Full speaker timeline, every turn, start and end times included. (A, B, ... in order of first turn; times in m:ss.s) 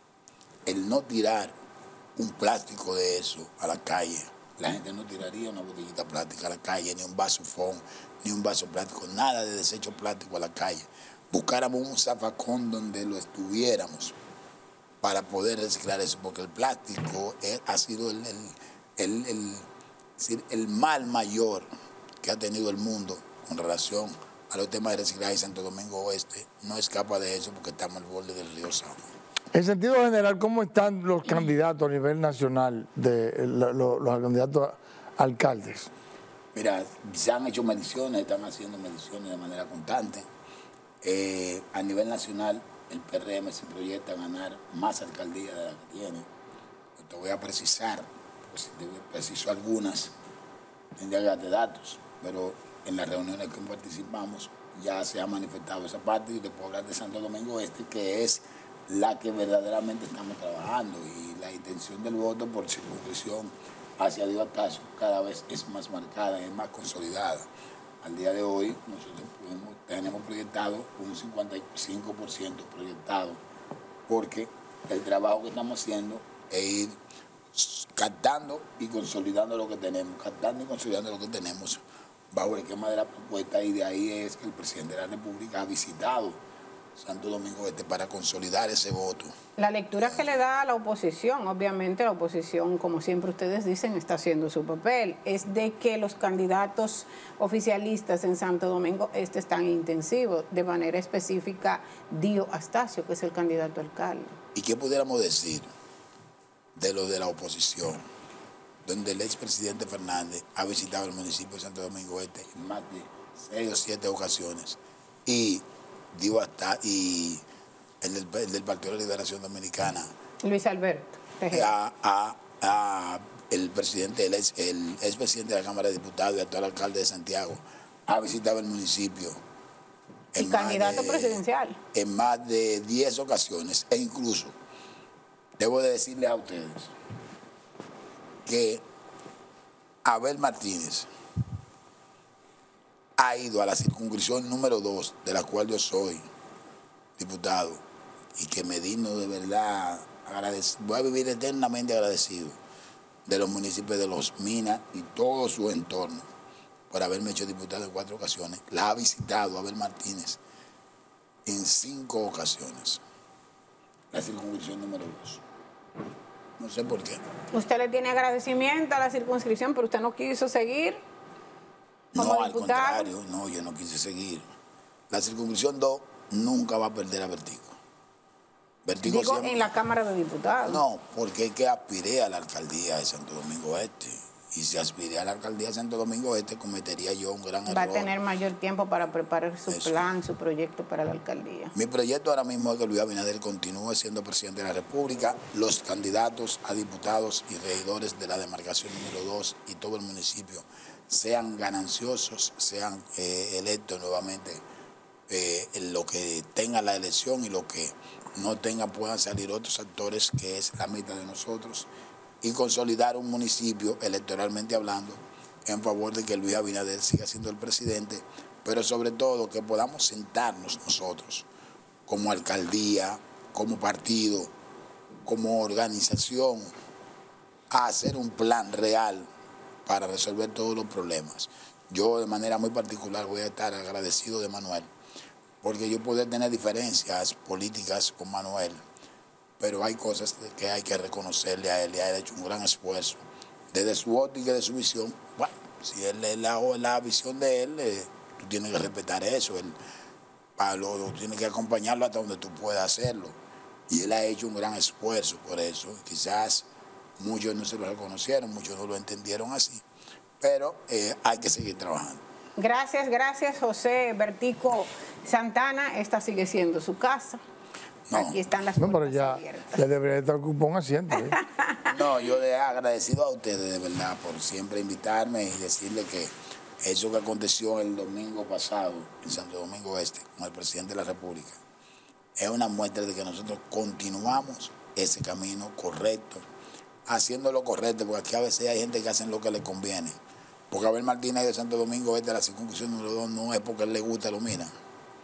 0:00.6-0:01.5 A
0:02.2-0:14.2 A
0:15.0-0:19.7 A
0:20.2-0:21.7 A
0:22.2-0:29.0 A
0:29.5-0:35.9 B
0:36.5-0:40.3 A
0:41.0-0:46.3 A
0:47.0-0:50.2 A
0:51.0-1:07.5 A
1:08.0-1:13.4 A
1:14.1-1:17.0 A
1:17.5-1:26.4 A
1:26.9-1:29.3 A
1:29.6-1:44.3 C
1:44.5-1:45.7 A
1:46.7-1:48.0 A
1:48.8-1:57.4 A
1:58.0-2:00.1 A
2:00.4-2:01.7 C
2:01.5-2:09.4 A
2:10.3-2:11.4 A
2:10.4-2:11.8 C
2:11.9-2:14.6 A
2:15.6-2:16.9 A
2:18.4-2:18.8 A
2:20.0-2:21.1 A
2:23.2-2:26.3 A
2:27.2-2:27.8 A
2:28.4-2:32.6 A
2:33.2-2:36.3 A
2:36.9-2:40.4 A
2:41.4-2:43.0 A
2:44.1-2:45.4 A
2:46.6-2:47.2 A
2:47.5-2:51.0 C
2:52.1-2:54.4 A
2:52.2-2:53.1 C
2:55.1-2:57.8 A
2:58.8-2:59.7 A
2:59.0-3:00.8 C
3:00.6-3:08.1 A
3:07.7-3:11.7 C
3:09.7-3:10.1 A
3:11.7-3:24.6 A
3:25.3-3:31.9 A
3:32.4-3:41.5 A
3:42.0-3:44.5 A
3:45.2-3:46.7 A
3:47.7-3:49.3 A
3:49.8-3:54.9 A
3:55.6-3:58.8 A
3:59.6-4:09.8 A
4:10.6-4:13.4 A
4:13.9-4:19.8 A
4:20.4-4:22.2 A
4:22.6-4:27.4 C
4:28.1-4:28.4 A
4:28.1-4:29.8 C
4:28.8-4:31.4 B
4:31.3-4:31.8 C
4:31.8-4:41.6 A
4:42.4-4:46.4 A
4:47.0-4:50.2 A
4:50.7-4:54.7 A